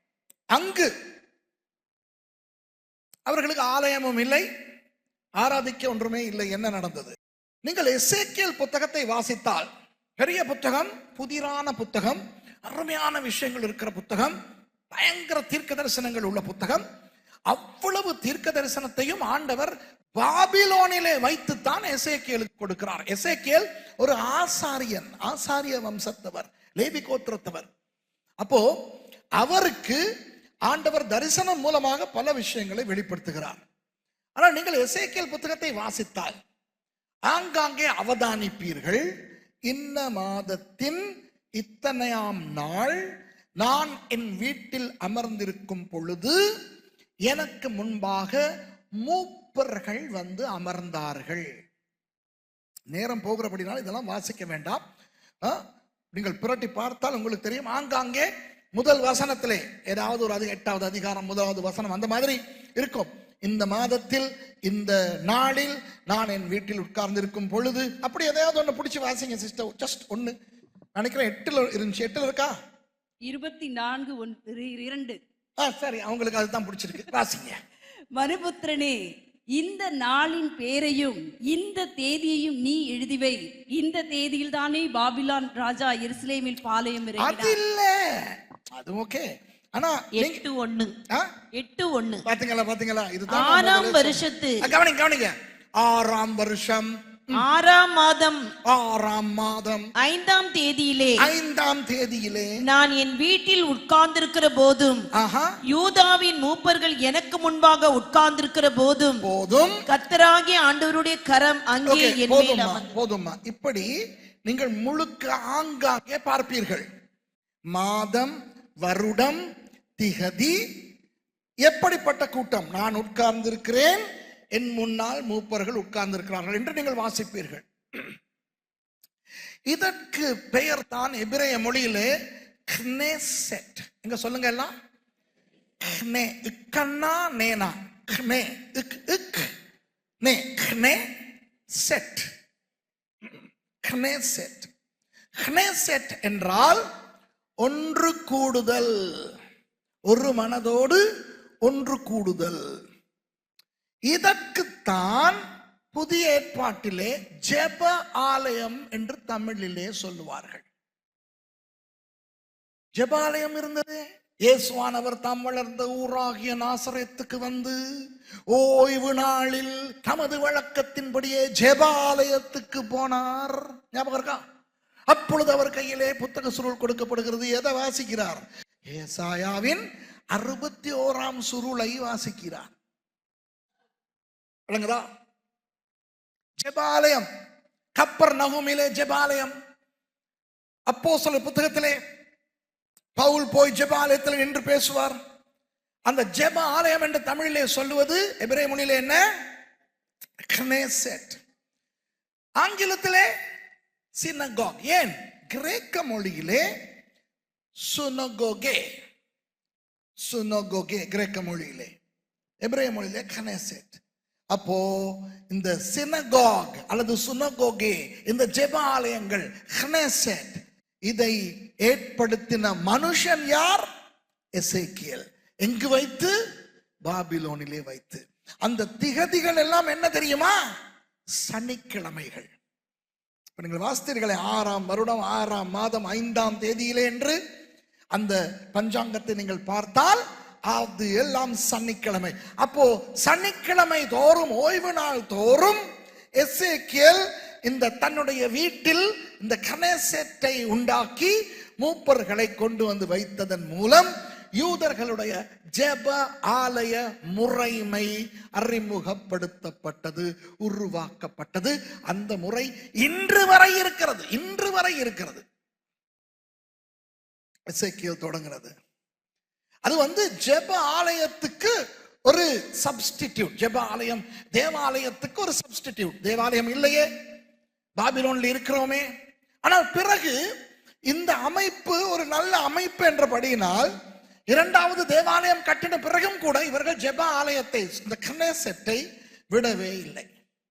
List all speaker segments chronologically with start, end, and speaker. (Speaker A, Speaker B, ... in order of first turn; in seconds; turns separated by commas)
Speaker A: 0.6-0.9, Speaker A: 3.3-4.5, Speaker A: 5.4-9.7, Speaker A: 10.2-14.3, Speaker A: 14.9-16.8, Speaker A: 17.5-27.7, Speaker A: 29.4-30.0, Speaker A: 30.7-33.6, Speaker A: 34.4-36.3, Speaker A: 37.3-39.0, Speaker A: 39.7-41.0, Speaker A: 41.6-43.0, Speaker A: 43.6-46.4, Speaker A: 47.3-48.4, Speaker A: 49.0-51.5, Speaker A: 52.9-54.8, Speaker A: 56.1-70.3, Speaker A: 71.0-72.5, Speaker B: 73.3-75.2, Speaker A: 75.6-77.6, Speaker B: 78.2-79.0, Speaker B: 79.6-87.6, Speaker A: 87.2-88.0, Speaker A: 88.7-90.4, Speaker C: 90.2-90.9, Speaker C: 91.5-92.3, Speaker A: 92.2-97.4, Speaker C: 93.3-94.6, Speaker C: 97.4-98.5, Speaker A: 98.7-99.9, Speaker C: 100.0-101.3, Speaker A: 101.2-102.6, Speaker C: 102.6-105.1, Speaker A: 105.2-105.5, Speaker C: 105.7-109.2, Speaker A: 109.2-109.8, Speaker C: 109.9-112.9, Speaker A: 111.9-113.9, Speaker A: 114.5-116.8, Speaker A: 117.7-119.4, Speaker A: 120.0-120.6, Speaker A: 121.7-124.0, Speaker A: 124.5-128.1, Speaker A: 129.7-132.1, Speaker A: 132.7-134.7, Speaker A: 135.9-139.5, Speaker A: 140.2-141.0, Speaker A: 141.8-142.3, Speaker A: 143.8-144.7, Speaker A: 145.4-146.8, Speaker A: 147.6-149.0, Speaker A: 150.1-151.0, Speaker A: 151.6-152.6, Speaker A: 154.1-155.4, Speaker A: 155.9-160.7, Speaker A: 163.0-167.8, Speaker A: 168.5-174.4, Speaker A: 175.1-179.8, Speaker A: 180.3-182.7, Speaker A: 184.7-185.1, Speaker A: 186.6-187.2, Speaker A: 188.0-189.5, Speaker A: 190.9-192.0, Speaker A: 193.2-195.2, Speaker A: 196.1-199.2, Speaker A: 200.5-201.4, Speaker A: 202.6-203.3, Speaker A: 204.2-206.7, Speaker A: 207.9-208.8, Speaker A: 210.2-211.9, Speaker A: 212.6-214.0, Speaker A: 214.5-223.9, Speaker A: 224.6-226.3, Speaker A: 227.1-230.6, Speaker A: 231.4-232.5, Speaker A: 233.6-237.4, Speaker A: 238.1-245.8, Speaker A: 246.4-265.4, Speaker A: 267.7-268.7, Speaker A: 269.9-271.7, Speaker A: 272.3-277.1, Speaker A: 278.0-279.1, Speaker A: 279.6-280.4, Speaker A: 281.1-283.9, Speaker A: 284.5-290.3